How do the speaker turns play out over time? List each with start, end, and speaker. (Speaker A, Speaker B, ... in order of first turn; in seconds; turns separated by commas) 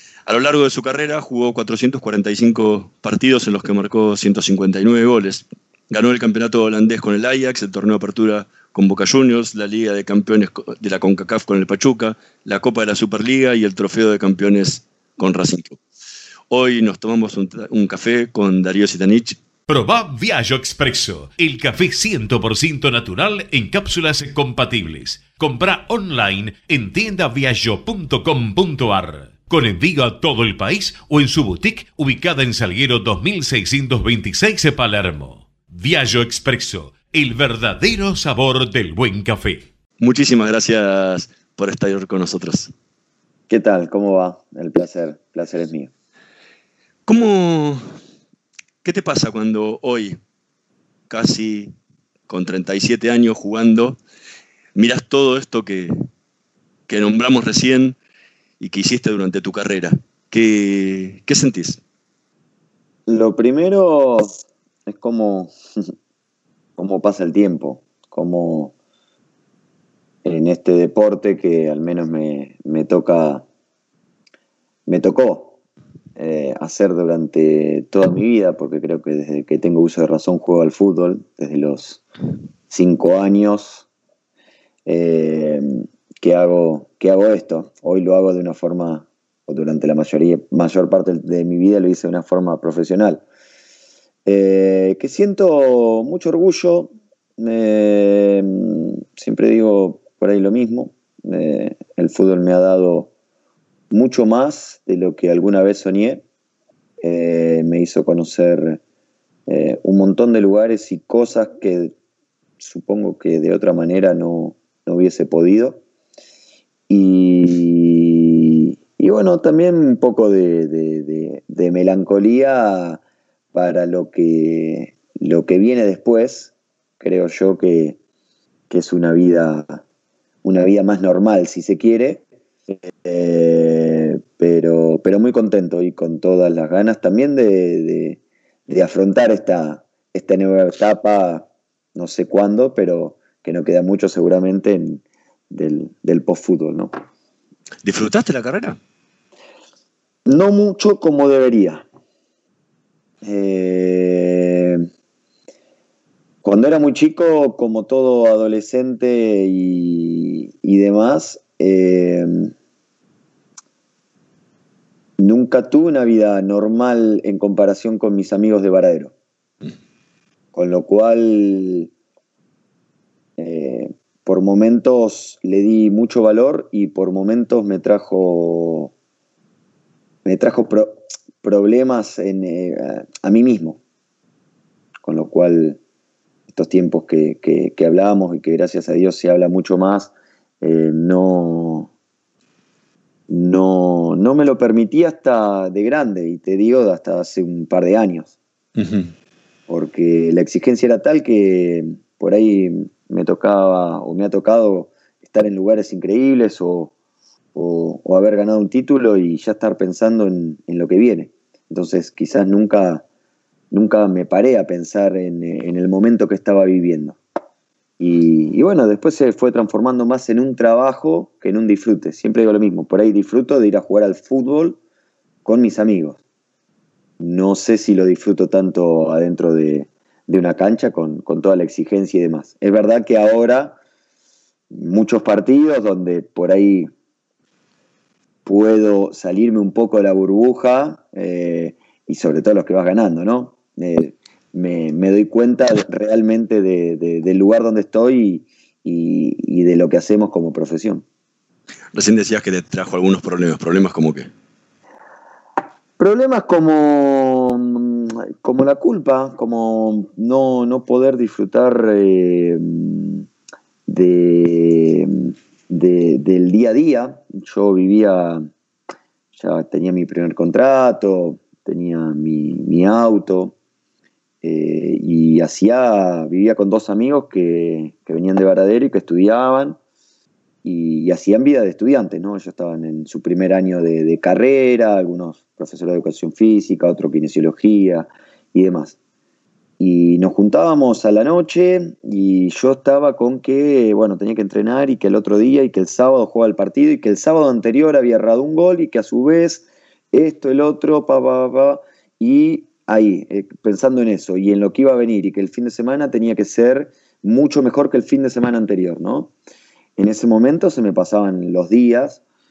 Speaker A: 0.2-15.8, Speaker A: 16.5-19.4, Speaker B: 19.7-39.6, Speaker A: 40.0-42.7, Speaker C: 43.5-45.9, Speaker A: 47.1-47.8, Speaker A: 48.8-50.2, Speaker A: 51.1-51.7, Speaker A: 52.3-54.0, Speaker A: 54.8-55.9, Speaker A: 56.9-58.0, Speaker A: 58.6-61.8, Speaker C: 63.1-64.3, Speaker C: 64.9-65.5, Speaker C: 66.8-68.7, Speaker C: 70.2-73.4, Speaker C: 74.9-75.6, Speaker C: 76.2-82.0, Speaker C: 82.7-83.9, Speaker C: 84.9-93.2, Speaker C: 94.2-103.1, Speaker C: 103.9-106.2, Speaker C: 107.0-108.8, Speaker C: 109.5-111.9, Speaker C: 112.6-115.8, Speaker C: 116.9-123.0, Speaker C: 123.5-128.0, Speaker C: 128.7-129.8, Speaker C: 130.4-146.9, Speaker A: 147.8-148.8, Speaker C: 150.2-151.8, Speaker C: 153.2-154.9, Speaker C: 156.4-162.5, Speaker C: 165.2-169.1, Speaker C: 170.5-171.9, Speaker C: 173.4-178.9, Speaker C: 180.2-183.8, Speaker C: 185.0-185.8, Speaker C: 186.5-191.9, Speaker C: 193.3-198.4, Speaker A: 198.8-199.1, Speaker C: 199.7-206.9, Speaker C: 207.6-213.0, Speaker C: 213.7-217.2, Speaker C: 218.0-224.8, Speaker C: 225.4-226.2, Speaker C: 227.2-233.8, Speaker C: 234.7-236.9, Speaker C: 238.4-251.0, Speaker A: 251.9-254.3, Speaker C: 256.0-263.2, Speaker C: 263.9-268.5, Speaker C: 269.4-273.5, Speaker C: 274.4-279.8, Speaker C: 280.6-289.0, Speaker C: 289.8-309.3, Speaker C: 310.0-312.2